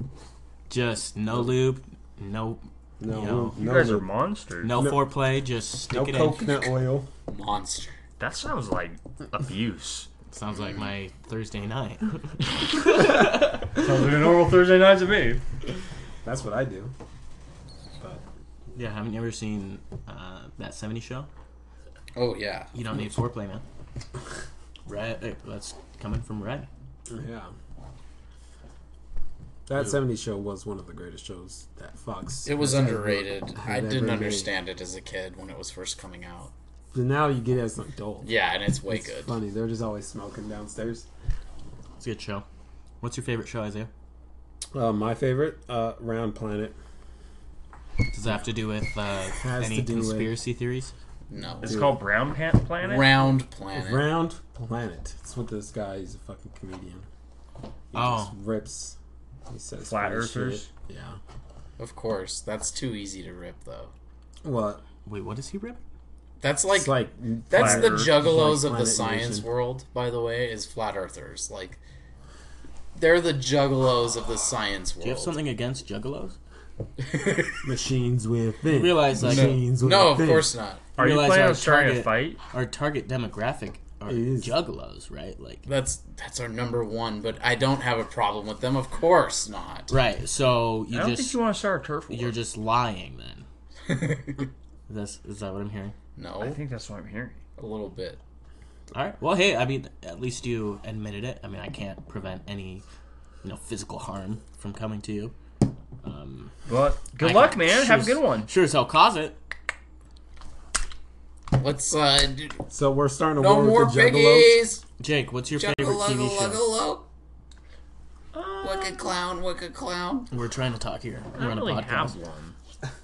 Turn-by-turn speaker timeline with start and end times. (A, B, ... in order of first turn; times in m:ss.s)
0:00.7-0:03.6 A
0:03.0-0:04.1 B
0:03.5-0:04.8 C
0:04.6-0:06.7 A
0:04.7-0:05.1 B
0:05.9-0:07.1 B
0:07.3-0:08.0 D
0:08.2-0:10.1 C
0:10.3-0:13.3 A
0:12.7-0:15.4 C
0:16.2-0:16.9 B
0:18.7-0:21.3 A
0:22.1-0:22.7 D
0:22.7-0:23.6 A
0:24.9-0:26.7 A
0:27.1-0:27.5 B
0:29.7-0:34.5 B
0:32.4-0:36.5 D
0:36.9-0:38.3 B
0:38.2-0:39.3 D
0:38.9-0:41.0 B
0:42.0-0:42.4 A
0:43.0-0:43.9 A
0:44.7-0:46.7 B
0:48.1-0:50.9 A
0:49.3-0:50.4 B
0:51.3-0:51.9 D
0:51.6-0:52.0 B
0:51.6-0:53.4 C
0:52.8-0:54.1 D
0:53.7-0:57.0 B
0:57.9-0:59.0 B
0:57.9-0:58.4 A
0:59.5-1:01.2 B
0:59.8-1:00.7 C
1:01.8-1:03.9 D
1:04.4-1:04.8 B
1:05.0-1:05.8 A
1:06.4-1:11.8 D
1:06.7-1:09.4 B
1:07.5-1:08.2 C
1:12.9-1:15.4 D
1:15.0-1:16.4 A
1:17.0-1:17.6 D
1:17.6-1:20.5 B
1:18.7-1:19.6 A
1:19.2-1:20.8 D
1:21.0-1:22.4 C
1:21.0-1:25.6 A
1:24.1-1:24.5 B
1:25.6-1:29.9 D
1:29.9-1:31.4 A
1:30.9-1:32.4 C
1:32.1-1:33.4 A
1:33.9-1:34.4 D
1:34.9-1:35.9 A
1:36.2-1:36.6 D
1:36.4-1:37.4 C
1:37.6-1:38.2 D
1:38.9-1:42.8 A
1:43.4-1:45.4 A
1:46.0-1:46.5 A
1:46.7-1:48.5 C
1:47.2-1:49.4 A
1:51.5-1:52.6 D
1:52.7-1:54.6 B
1:53.4-1:54.8 D
1:55.0-1:56.6 A
1:55.6-1:57.1 D
1:58.3-1:59.1 C
1:58.6-2:00.3 D
2:00.3-2:02.2 A
2:01.4-2:02.5 C